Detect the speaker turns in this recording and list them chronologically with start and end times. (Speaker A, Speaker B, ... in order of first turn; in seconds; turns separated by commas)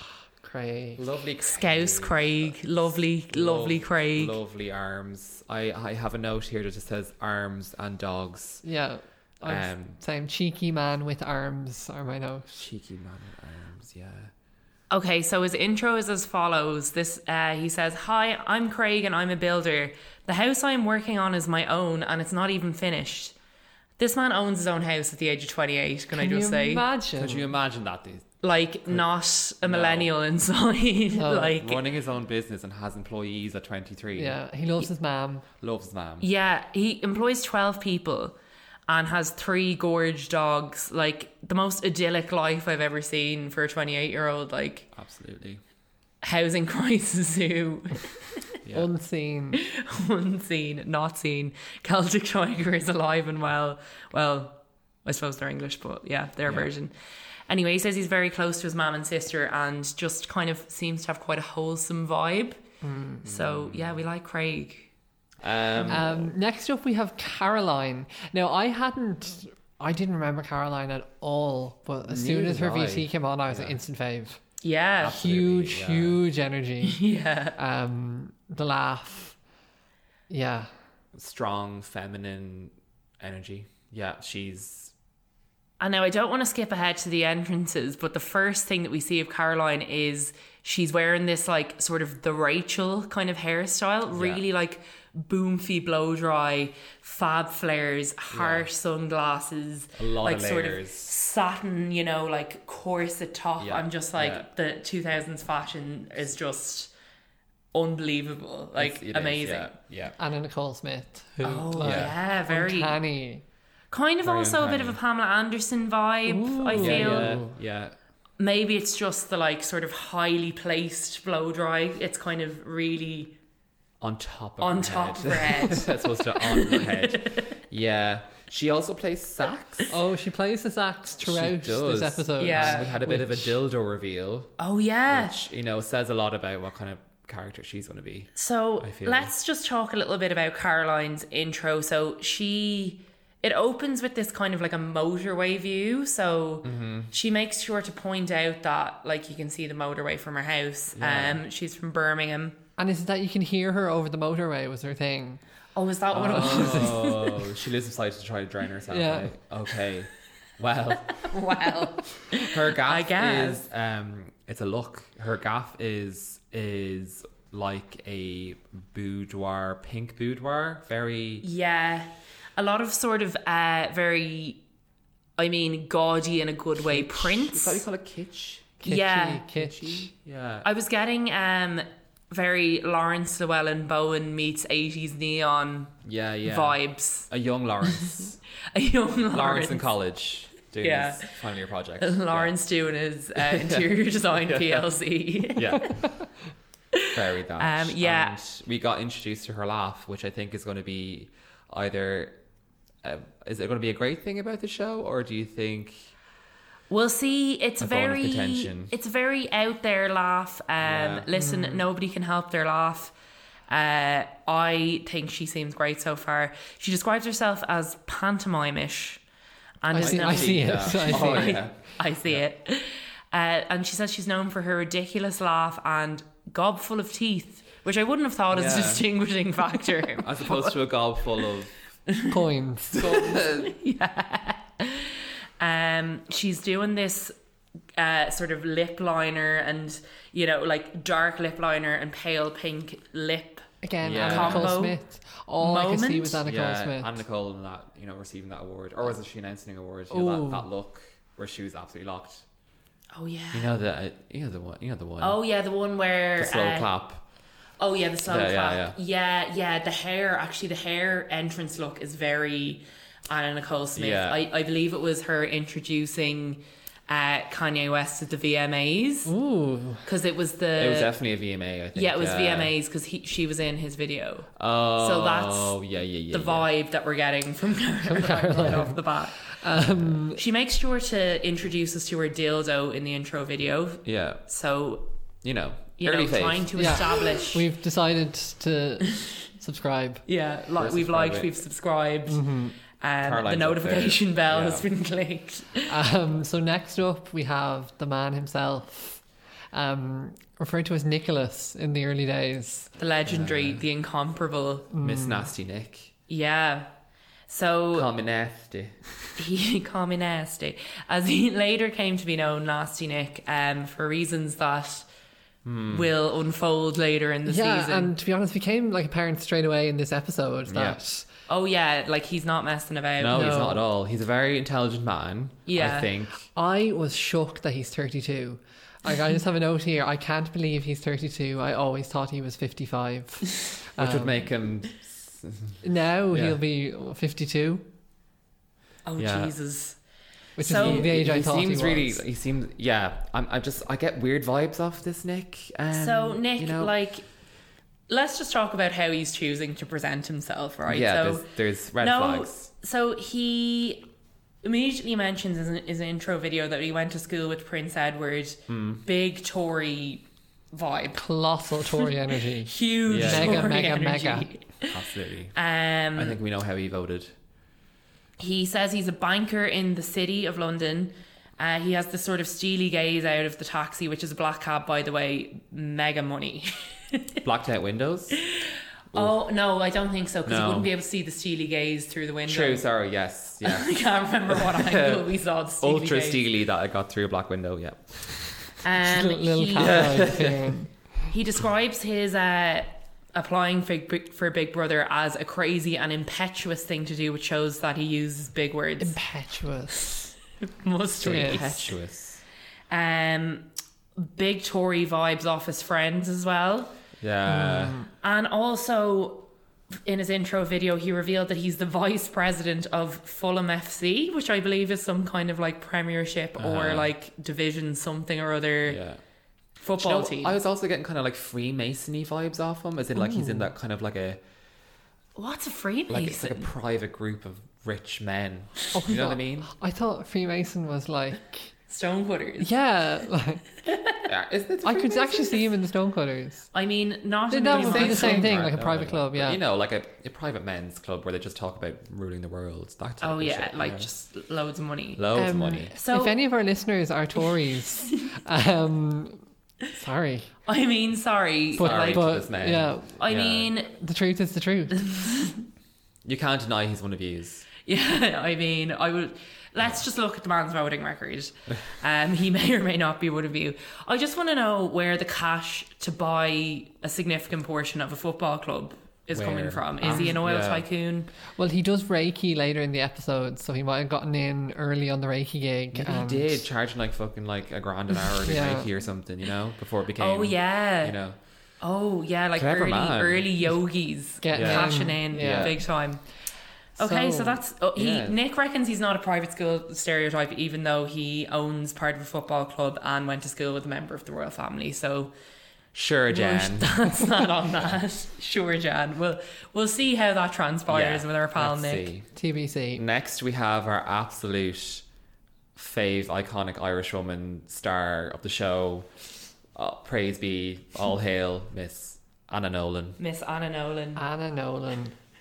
Speaker A: 0.4-1.0, Speaker B: 1.0-8.6, Speaker C: 1.4-4.4, Speaker A: 8.6-12.6, Speaker B: 9.4-10.0, Speaker B: 12.5-14.3, Speaker C: 14.9-23.4, Speaker C: 24.0-26.9, Speaker A: 26.1-27.5, Speaker B: 27.1-28.3, Speaker C: 28.4-31.8, Speaker B: 29.6-30.1, Speaker A: 31.1-31.6, Speaker B: 31.5-34.4, Speaker A: 34.1-35.5, Speaker B: 35.6-36.3, Speaker C: 36.2-38.4, Speaker C: 38.9-44.9, Speaker B: 44.9-45.6, Speaker C: 46.2-48.4, Speaker B: 48.6-48.9, Speaker A: 48.7-49.6, Speaker C: 49.5-56.9, Speaker C: 57.5-62.6, Speaker A: 62.8-63.3, Speaker C: 63.2-64.9, Speaker B: 63.2-64.0, Speaker B: 65.4-66.3, Speaker C: 65.7-66.0, Speaker A: 65.9-74.4, Speaker B: 72.1-73.8, Speaker C: 74.6-75.2, Speaker B: 75.0-76.2, Speaker A: 75.1-77.0, Speaker C: 76.8-77.6, Speaker A: 77.6-79.4, Speaker A: 80.3-80.7, Speaker B: 81.1-84.9, Speaker C: 85.8-106.9, Speaker B: 94.1-94.4, Speaker B: 98.3-98.7, Speaker B: 100.0-101.1, Speaker B: 103.6-104.5, Speaker C: 107.7-109.8, Speaker B: 108.8-110.2, Speaker A: 110.2-113.4, Speaker C: 111.4-113.0, Speaker B: 111.8-112.2, Speaker C: 113.9-117.4, Speaker B: 114.2-115.0, Speaker A: 116.3-117.5, Speaker B: 116.7-118.0, Speaker C: 118.4-123.3, Speaker B: 124.0-129.9, Speaker C: 124.6-127.6, Speaker A: 129.9-133.6, Speaker B: 131.2-134.5, Speaker C: 132.4-132.9, Speaker C: 134.6-135.4, Speaker B: 135.1-139.3, Speaker C: 138.3-152.6, Speaker B: 146.6-147.1, Speaker B: 150.9-151.4, Speaker A: 152.8-155.4, Speaker C: 155.8-157.3, Speaker B: 156.1-161.3, Speaker A: 156.3-157.2, Speaker A: 158.9-159.3, Speaker C: 161.1-163.6, Speaker B: 162.3-171.5, Speaker C: 171.4-174.6, Speaker C: 175.4-177.8, Speaker B: 176.8-178.8, Speaker A: 178.8-180.1, Speaker C: 178.9-179.5, Speaker B: 179.5-180.7, Speaker C: 180.6-187.3, Speaker B: 186.0-188.4, Speaker C: 187.8-188.2, Speaker C: 188.7-189.9, Speaker B: 189.3-192.6, Speaker C: 190.8-191.3, Speaker C: 192.0-196.0, Speaker B: 193.4-195.0, Speaker B: 195.5-196.2, Speaker C: 196.9-198.4, Speaker B: 197.1-202.3, Speaker B: 203.0-206.1, Speaker C: 206.9-213.1, Speaker B: 207.8-208.9, Speaker B: 210.8-211.3, Speaker A: 211.3-211.8, Speaker C: 213.7-219.2, Speaker C: 219.8-230.8, Speaker A: 219.9-221.6, Speaker B: 219.9-222.4, Speaker B: 228.5-229.1, Speaker B: 230.2-231.8, Speaker C: 232.1-232.4, Speaker A: 232.3-232.9, Speaker B: 232.9-233.8, Speaker C: 232.9-237.3, Speaker C: 238.0-245.0, Speaker A: 243.8-247.2, Speaker B: 244.0-244.8, Speaker C: 245.6-246.4, Speaker B: 246.4-252.4, Speaker A: 250.1-250.7, Speaker C: 253.1-253.7, Speaker B: 253.5-255.4, Speaker C: 255.2-256.9, Speaker B: 256.4-257.2, Speaker C: 257.8-269.3, Speaker B: 258.2-258.9, Speaker B: 263.9-264.4, Speaker A: 269.3-270.0, Speaker C: 270.1-271.1, Speaker B: 270.8-272.7, Speaker C: 271.9-275.8, Speaker B: 274.6-276.7, Speaker C: 276.3-279.4, Speaker A: 278.1-280.4, Speaker B: 279.8-280.2, Speaker C: 280.4-285.1, Speaker B: 284.1-284.4, Speaker B: 285.4-287.4, Speaker C: 286.0-287.6, Speaker A: 286.8-290.2, Speaker C: 290.3-295.9, Speaker B: 290.8-291.6, Speaker A: 292.3-292.8, Speaker B: 293.2-294.9, Speaker A: 295.9-302.9, Speaker C: 303.0-304.9, Speaker B: 303.3-303.8, Speaker A: 304.9-305.5, Speaker B: 305.0-306.1, Speaker C: 306.3-306.9, Speaker C: 307.5-308.1, Speaker B: 307.9-309.1, Speaker C: 309.4-315.1, Speaker B: 315.6-316.1, Speaker C: 315.9-318.1, Speaker A: 317.5-321.3, Speaker B: 320.7-321.0, Speaker C: 321.5-323.6, Speaker B: 323.2-326.5, Speaker A: 323.3-323.8, Speaker C: 325.7-326.1, Speaker A: 326.6-334.5, Speaker B: 334.0-335.8, Speaker A: 335.8-337.9, Speaker B: 336.3-336.6, Speaker C: 339.1-340.0, Speaker B: 339.2-339.6, Speaker A: 340.6-342.2, Speaker C: 340.6-341.1, Speaker B: 340.7-346.9, Speaker C: 345.9-347.3, Speaker C: 348.1-351.5, Speaker B: 350.9-352.7, Speaker C: 352.0-354.1, Speaker C: 354.6-361.2, Speaker B: 358.7-359.0, Speaker A: 361.2-364.5, Speaker C: 361.8-362.1, Speaker C: 362.6-365.0, Speaker B: 363.1-363.7, Speaker B: 364.9-365.6, Speaker C: 365.6-366.4, Speaker B: 366.1-367.3, Speaker C: 368.4-377.4, Speaker B: 377.4-378.4, Speaker C: 378.4-382.9, Speaker B: 380.5-380.9, Speaker B: 382.4-388.8, Speaker C: 383.6-386.4, Speaker C: 388.8-390.4, Speaker A: 389.0-390.9, Speaker B: 389.8-390.8, Speaker C: 391.3-399.2, Speaker A: 399.0-400.3, Speaker C: 400.6-402.0, Speaker B: 401.2-402.4, Speaker A: 401.2-401.6, Speaker C: 402.9-406.9, Speaker B: 407.2-408.0, Speaker A: 407.5-408.1, Speaker C: 408.2-409.5, Speaker C: 410.1-419.0, Speaker B: 416.6-417.1, Speaker B: 418.9-419.2, Speaker C: 419.8-420.6, Speaker B: 420.0-424.4, Speaker A: 423.2-423.7, Speaker C: 425.4-426.7, Speaker B: 426.1-429.7, Speaker A: 428.9-431.7, Speaker C: 431.9-432.7, Speaker A: 432.6-433.6, Speaker C: 433.9-434.2, Speaker B: 434.3-435.6, Speaker A: 434.8-436.7, Speaker C: 436.7-438.6, Speaker A: 437.5-439.6, Speaker B: 437.7-444.1, Speaker C: 443.2-445.3, Speaker B: 445.2-445.9, Speaker A: 445.4-450.5, Speaker C: 445.9-446.4, Speaker C: 450.7-452.4, Speaker A: 451.8-453.2, Speaker B: 451.8-453.7, Speaker C: 453.2-453.9, Speaker A: 453.9-455.0, Speaker C: 454.9-455.6, Speaker B: 456.2-457.7, Speaker C: 457.8-471.3, Speaker B: 469.3-470.9, Speaker A: 470.0-470.4, Speaker A: 471.6-476.6, Speaker B: 475.9-481.4, Speaker A: 478.4-478.9, Speaker C: 480.2-481.2, Speaker C: 481.8-486.2, Speaker B: 482.6-483.5, Speaker A: 484.4-485.8, Speaker B: 484.5-485.8, Speaker C: 487.0-495.3, Speaker A: 487.0-487.6, Speaker B: 488.0-488.4, Speaker B: 495.9-497.2, Speaker C: 496.3-502.1, Speaker B: 500.9-502.3, Speaker A: 502.4-503.0, Speaker B: 502.9-505.1, Speaker B: 505.8-509.1, Speaker B: 509.8-513.2, Speaker C: 513.2-514.2, Speaker A: 514.2-515.1